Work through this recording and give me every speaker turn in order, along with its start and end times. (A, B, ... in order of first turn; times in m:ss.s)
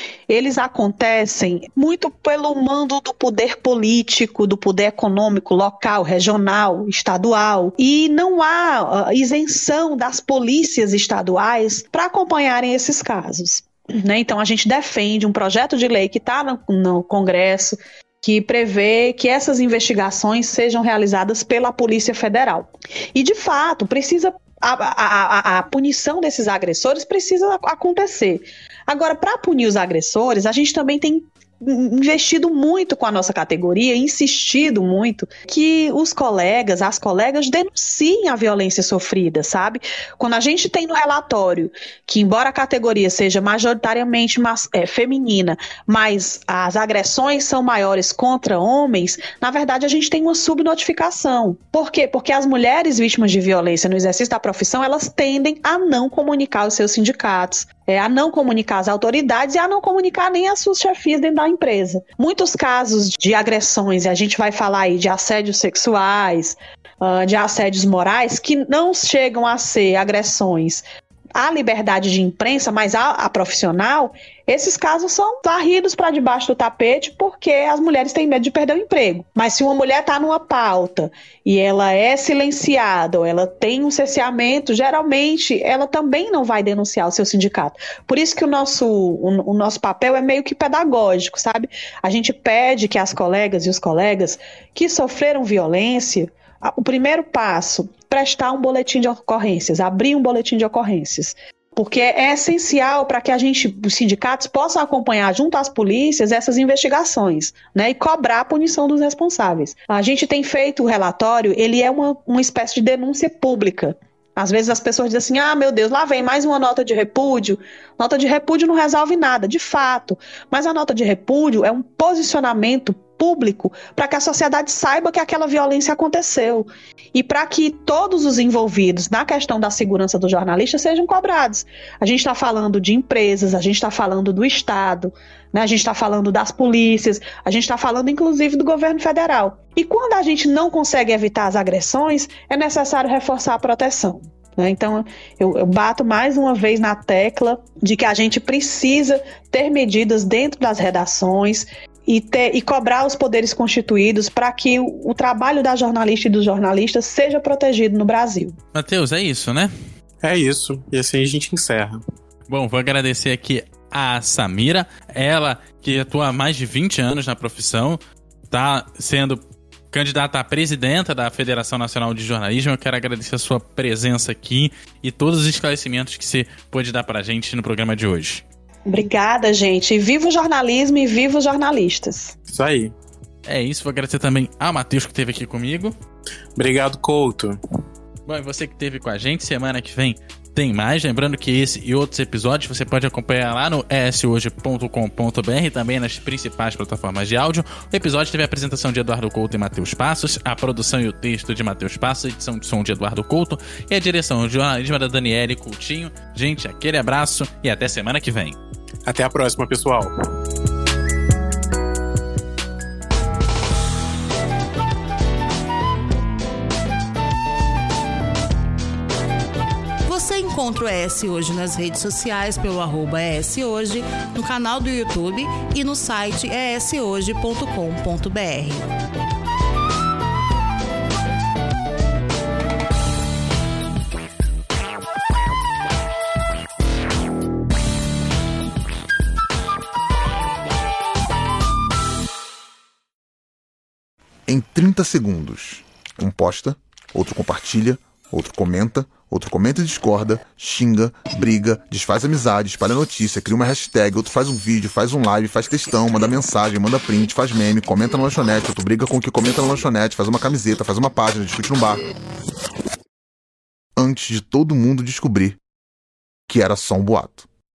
0:00.3-1:10.8 A
1:11.4-2:38.6 A
2:38.7-2:39.7 B
2:40.2-2:42.0 C
2:42.5-2:48.0 B
2:48.5-2:58.4 B
2:58.9-3:02.4 A
3:02.5-3:02.9 C
3:03.5-3:05.9 B
3:06.6-3:07.6 C
3:08.3-3:28.6 B
3:29.1-3:30.1 C
3:40.1-3:48.9 D
4:04.5-4:22.0 E
4:24.0-4:25.6 E
4:26.5-4:27.4 E